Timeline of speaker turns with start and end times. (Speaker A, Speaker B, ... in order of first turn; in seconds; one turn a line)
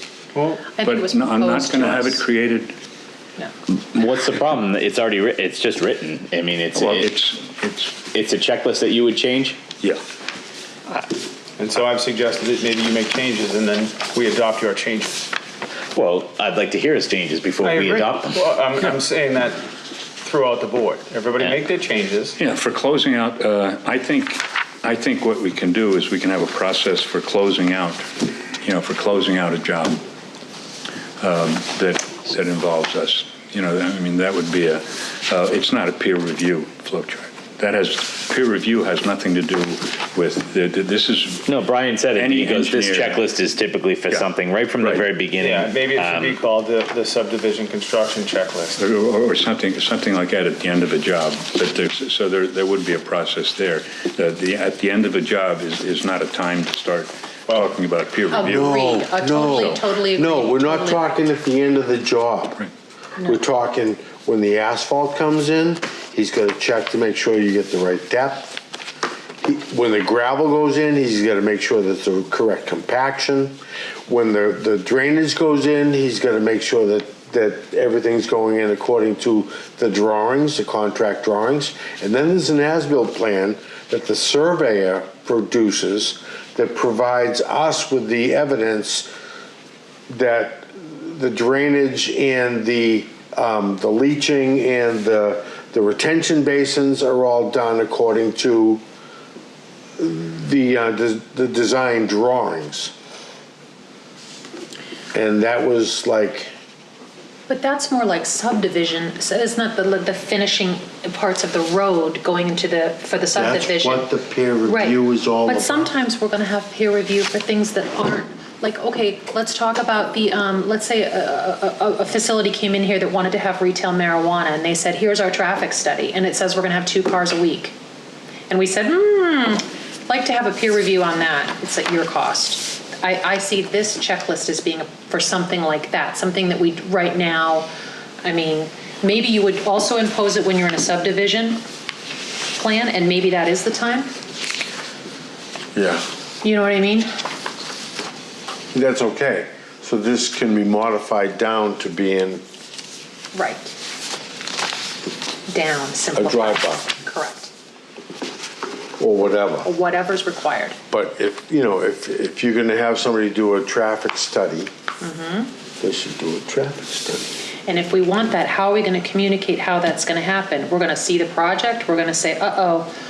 Speaker A: 0.3-0.7
Speaker B: 0.7-2.2
Speaker C: 0.8-2.7
Speaker D: 3.7-7.1
Speaker C: 6.7-8.0
Speaker D: 8.0-9.6
Speaker A: 11.6-15.3
Speaker D: 15.9-18.4
Speaker A: 17.6-19.6
Speaker A: 20.2-22.4
Speaker C: 22.4-28.1
Speaker C: 28.6-30.0
Speaker C: 31.2-41.5
Speaker D: 41.5-46.4
Speaker C: 42.1-43.3
Speaker C: 44.1-45.0
Speaker A: 45.4-48.8
Speaker C: 48.8-59.8
Speaker A: 57.5-57.8
Speaker B: 58.3-61.3
Speaker E: 58.4-62.7
Speaker E: 63.2-68.6
Speaker E: 69.4-73.6
Speaker E: 74.1-89.1
Speaker E: 90.1-98.8
Speaker E: 100.0-102.9
Speaker E: 105.1-106.5
Speaker B: 107.5-114.1
Speaker E: 113.3-115.9
Speaker B: 114.6-127.8
Speaker B: 128.5-137.7
Speaker B: 138.2-141.6
Speaker B: 142.5-144.1
Speaker E: 145.8-146.0
Speaker B: 146.4-147.1
Speaker E: 148.7-152.4
Speaker B: 153.3-153.8
Speaker B: 155.5-157.5
Speaker E: 156.1-156.9
Speaker E: 159.0-159.7
Speaker B: 159.6-160.8
Speaker E: 160.9-164.7
Speaker B: 165.0-165.5
Speaker E: 165.8-167.3
Speaker B: 167.7-172.9